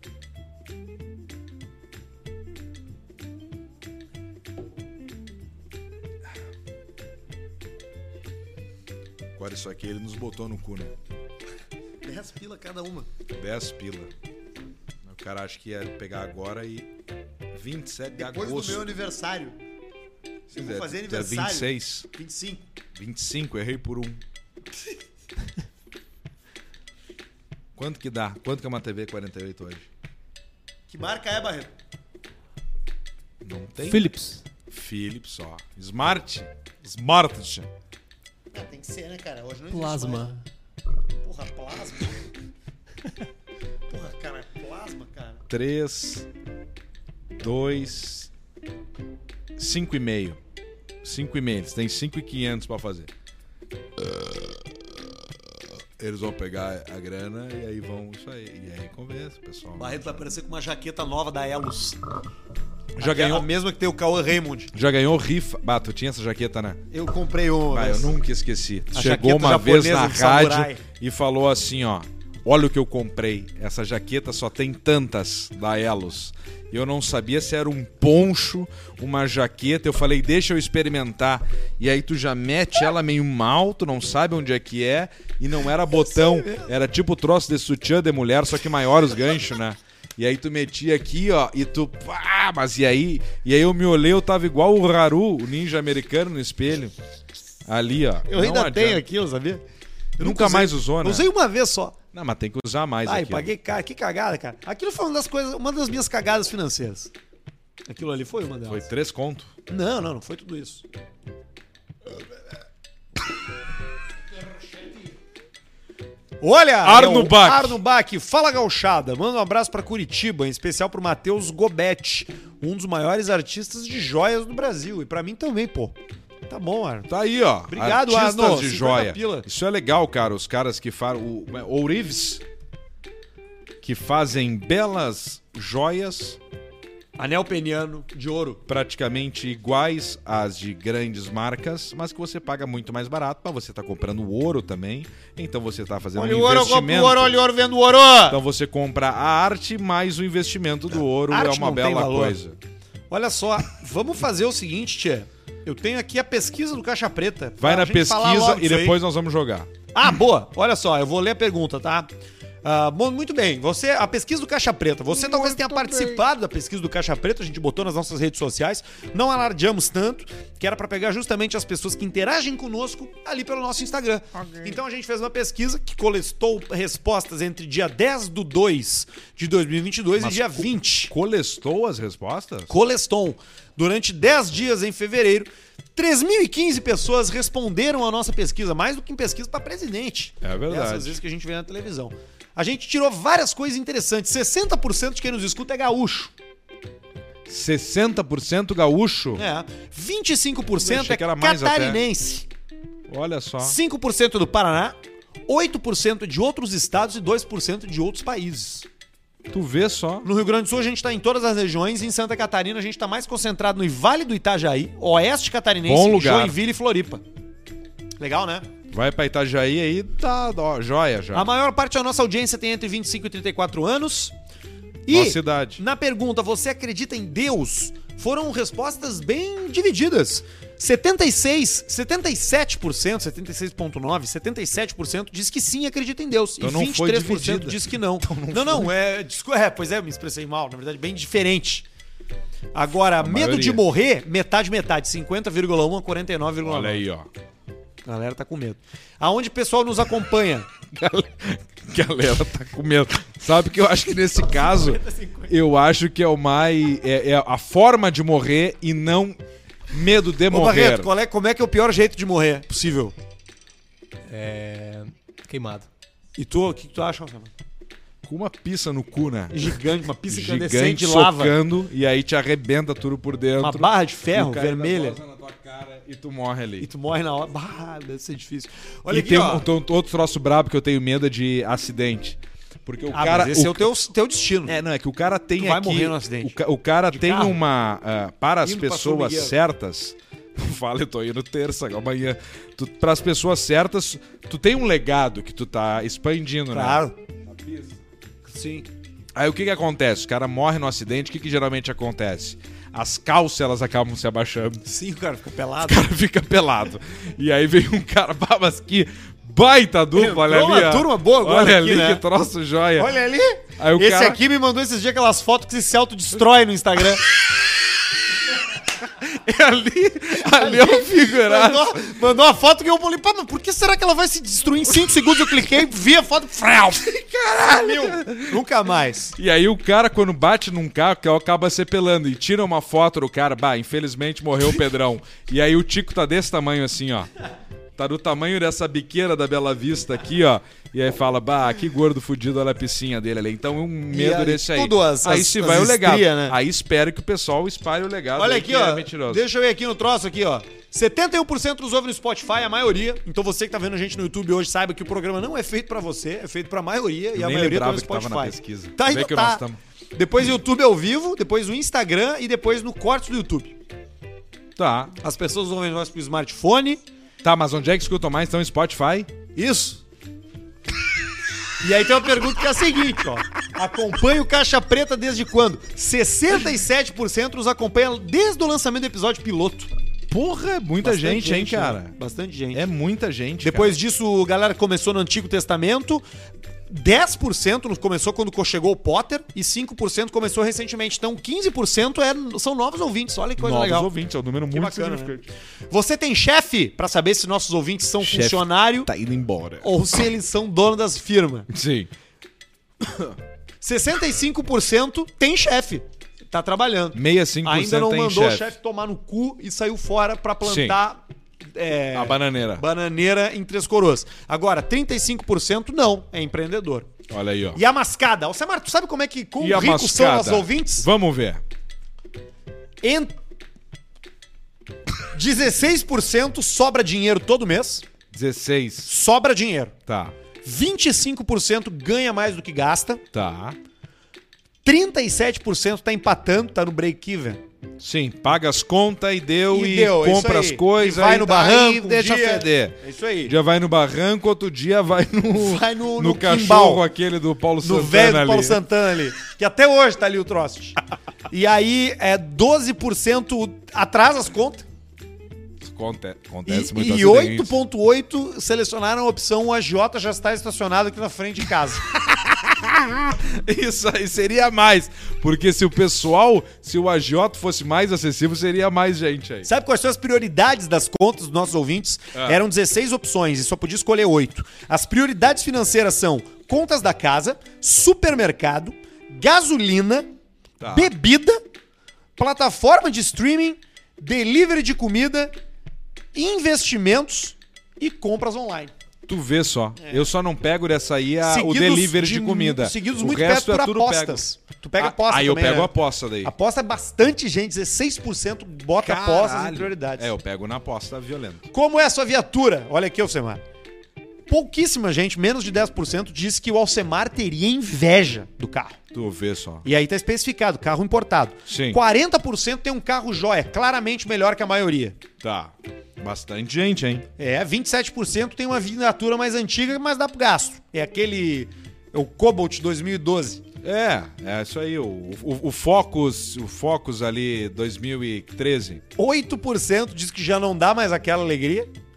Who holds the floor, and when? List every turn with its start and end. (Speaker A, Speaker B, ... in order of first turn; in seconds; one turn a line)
Speaker A: 9.4-10.9
Speaker B: 12.0-13.1
Speaker A: 13.3-14.1
Speaker A: 15.0-16.9
Speaker A: 17.5-18.9
Speaker B: 18.1-19.6
Speaker A: 20.5-22.1
Speaker B: 20.5-22.6
Speaker A: 22.9-24.2
Speaker A: 27.8-29.9
Speaker B: 30.9-31.7
Speaker A: 33.4-34.1
Speaker C: 33.8-34.4
Speaker A: 34.7-37.7
Speaker B: 38.5-40.3
Speaker C: 39.7-40.4
Speaker B: 41.2-42.3
Speaker B: 43.9-45.4
Speaker A: 45.5-46.3
Speaker A: 47.4-48.3
Speaker A: 49.6-50.4
Speaker A: 51.0-53.1
Speaker A: 54.0-54.5
Speaker A: 56.0-60.2
Speaker B: 59.8-62.0
Speaker A: 63.0-63.5
Speaker B: 63.0-64.7
Speaker A: 64.7-66.8
Speaker B: 66.9-68.1
Speaker A: 67.7-96.9
Speaker B: 68.9-70.8
Speaker B: 85.9-86.7
Speaker A: 97.7-99.0
Speaker B: 98.3-99.6
Speaker B: 100.2-102.0
Speaker A: 100.2-101.3
Speaker A: 102.1-103.5
Speaker B: 103.0-107.1
Speaker B: 107.9-108.9
Speaker A: 108.7-109.5
Speaker B: 109.7-110.8
Speaker B: 116.4-126.0
Speaker A: 116.8-117.8
Speaker B: 126.5-127.1
Speaker A: 127.1-132.4
Speaker B: 127.7-129.5
Speaker A: 133.8-136.4
Speaker B: 137.2-138.6
Speaker A: 138.7-147.4
Speaker B: 146.2-148.4
Speaker A: 148.3-152.6
Speaker B: 151.3-152.4
Speaker B: 153.1-159.0
Speaker A: 157.6-159.7
Speaker B: 159.9-162.1
Speaker B: 162.6-181.1
Speaker A: 165.2-166.2
Speaker A: 180.2-182.7
Speaker B: 182.7-196.3
Speaker A: 190.4-191.2
Speaker A: 197.5-199.4
Speaker B: 199.3-202.5
Speaker A: 200.8-202.0
Speaker A: 203.1-203.8
Speaker B: 203.6-205.0
Speaker B: 205.5-208.9
Speaker A: 209.5-210.3
Speaker B: 210.2-217.2
Speaker A: 215.9-216.6
Speaker B: 218.2-218.7
Speaker A: 218.9-221.5
Speaker B: 221.3-224.3
Speaker B: 225.1-241.9
Speaker A: 225.1-225.8
Speaker A: 236.6-238.9
Speaker B: 242.7-247.0
Speaker A: 243.2-243.8
Speaker A: 246.6-247.3
Speaker B: 248.1-250.7
Speaker A: 250.9-259.4
Speaker B: 254.6-255.5
Speaker A: 259.9-261.1
Speaker B: 260.5-263.1
Speaker C: 264.3-265.9
Speaker B: 266.4-267.5
Speaker A: 268.2-269.8
Speaker B: 269.5-271.6
Speaker A: 270.3-276.9
Speaker B: 273.6-275.2
Speaker B: 276.8-279.7
Speaker A: 279.1-283.8
Speaker B: 283.1-284.8
Speaker A: 284.7-298.0
Speaker B: 285.6-286.6
Speaker B: 287.1-287.6
Speaker B: 288.6-289.6
Speaker B: 296.7-297.1
Speaker B: 298.5-298.9
Speaker A: 299.4-304.8
Speaker B: 304.9-306.1
Speaker A: 305.8-313.1
Speaker B: 310.1-312.2
Speaker B: 313.0-317.2
Speaker A: 313.8-314.4
Speaker A: 319.1-322.1
Speaker B: 320.4-329.4
Speaker A: 327.5-328.6
Speaker A: 329.4-337.3
Speaker A: 338.0-349.4
Speaker B: 344.1-346.6
Speaker B: 348.4-363.8
Speaker A: 357.4-359.8
Speaker A: 364.8-365.2
Speaker B: 365.2-367.0
Speaker A: 367.4-369.3
Speaker B: 369.6-370.0
Speaker B: 371.8-379.9
Speaker A: 380.3-382.1
Speaker B: 381.0-382.9
Speaker A: 382.7-384.0
Speaker B: 383.6-386.2
Speaker B: 386.9-394.1
Speaker A: 393.6-395.5
Speaker B: 394.7-395.4
Speaker B: 395.9-399.1
Speaker A: 398.2-399.9
Speaker B: 399.8-401.7
Speaker A: 401.7-402.1
Speaker A: 403.0-403.4
Speaker B: 403.8-411.2
Speaker A: 407.1-408.8
Speaker A: 410.6-411.0
Speaker B: 411.7-417.1
Speaker A: 412.1-412.8
Speaker A: 417.3-417.8
Speaker B: 417.7-421.1
Speaker A: 419.6-421.6
Speaker B: 423.0-423.3
Speaker B: 425.3-428.1
Speaker A: 428.3-429.1
Speaker B: 429.1-429.9
Speaker A: 430.1-430.4
Speaker B: 430.6-433.2
Speaker A: 433.3-433.8
Speaker B: 434.8-437.6
Speaker A: 438.0-448.8
Speaker B: 439.7-443.5
Speaker B: 445.6-447.1
Speaker B: 447.8-451.0
Speaker B: 451.5-454.9
Speaker A: 455.8-457.8
Speaker B: 456.7-462.2
Speaker A: 462.4-469.7
Speaker B: 469.6-480.3
Speaker A: 472.3-472.6
Speaker A: 480.8-481.1
Speaker B: 480.9-481.6
Speaker B: 482.4-485.5
Speaker B: 486.3-488.9
Speaker A: 489.3-494.4
Speaker B: 490.0-490.3
Speaker B: 491.4-500.3
Speaker A: 495.0-496.5
Speaker A: 499.0-501.7
Speaker B: 501.7-503.6
Speaker B: 504.5-509.0
Speaker A: 509.1-509.9
Speaker B: 509.9-515.2
Speaker A: 511.7-512.0
Speaker A: 515.4-517.3
Speaker B: 517.4-523.6
Speaker A: 523.8-529.0
Speaker B: 529.2-531.9